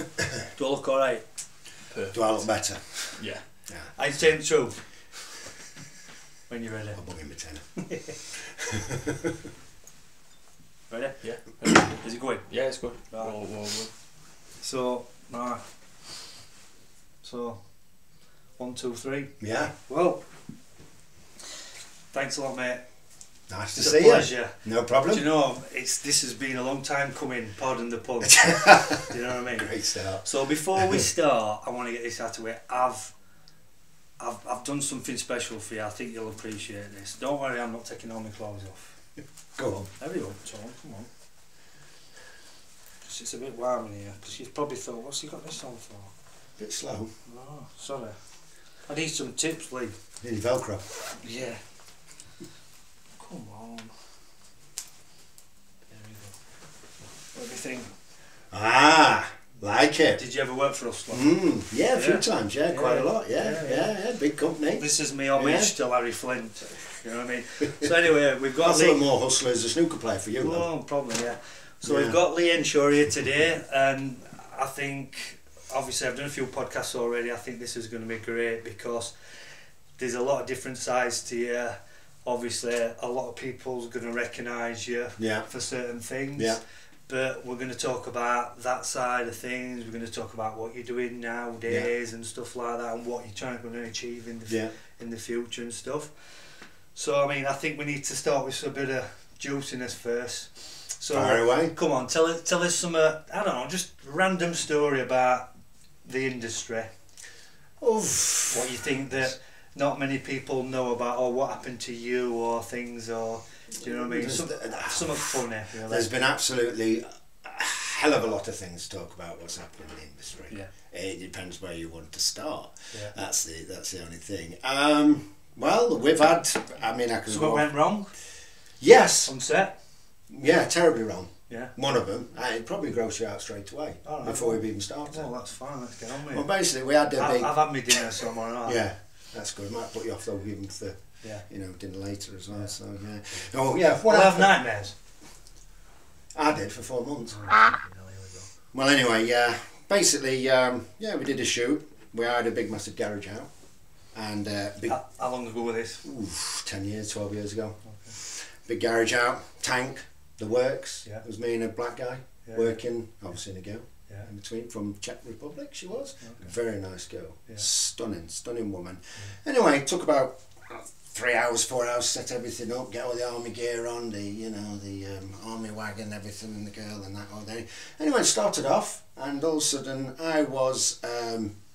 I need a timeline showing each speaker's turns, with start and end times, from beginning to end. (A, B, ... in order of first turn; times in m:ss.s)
0:00.5-0:01.5 A
0:01.9-0:03.5 B
0:02.1-0:04.4 C
0:04.0-0:05.0 A
0:06.5-0:07.0 A
0:06.9-0:09.3 C
0:10.9-0:12.5 A
0:11.2-0:11.8 B
0:12.5-0:13.9 B
0:13.1-0:13.4 A
0:14.6-0:15.6 A
0:17.2-0:18.0 A
0:18.6-0:20.2 A
0:19.4-0:19.7 C
0:22.1-0:22.9 A
0:23.5-0:25.3 C
0:23.8-0:33.1 A
0:28.2-0:30.2 C
0:34.2-0:39.0 A
0:39.6-0:39.9 C
0:40.0-0:41.1 A
0:43.0-0:46.1 A
0:46.6-0:47.1 C
0:47.3-0:48.2 A
0:48.9-0:49.9 A
0:50.2-0:51.2 C
0:51.2-0:51.6 A
0:53.2-0:53.9 A
0:55.9-0:56.4 A
0:57.3-0:57.9 A
0:58.5-1:00.2 C
1:00.2-1:01.3 A
1:01.1-1:05.7 C
1:01.9-1:03.9 A
1:04.8-1:09.0 A
1:08.6-1:10.6 C
1:10.4-1:45.5 A
1:11.8-1:12.2 C
1:25.2-1:25.5 C
1:26.4-1:26.6 C
1:34.5-1:34.7 C
1:41.1-1:41.7 C
1:46.0-1:46.9 A
1:47.8-1:49.2 C
1:48.5-1:56.1 A
1:53.8-2:07.7 C
2:07.3-2:08.1 A
2:08.8-2:09.3 C
2:09.2-2:09.8 A
2:10.3-2:15.3 C
2:14.0-2:16.5 A
2:16.3-2:18.0 C
2:17.2-2:18.8 A
2:18.6-2:24.7 C
2:24.1-2:25.0 A
2:26.3-2:27.4 C
2:27.3-2:28.5 A
2:28.7-2:33.5 C
2:34.1-2:35.0 C
2:34.9-2:36.0 A
2:36.0-3:01.6 C
2:37.8-2:38.2 A
2:42.5-2:42.8 A
2:46.2-2:46.5 A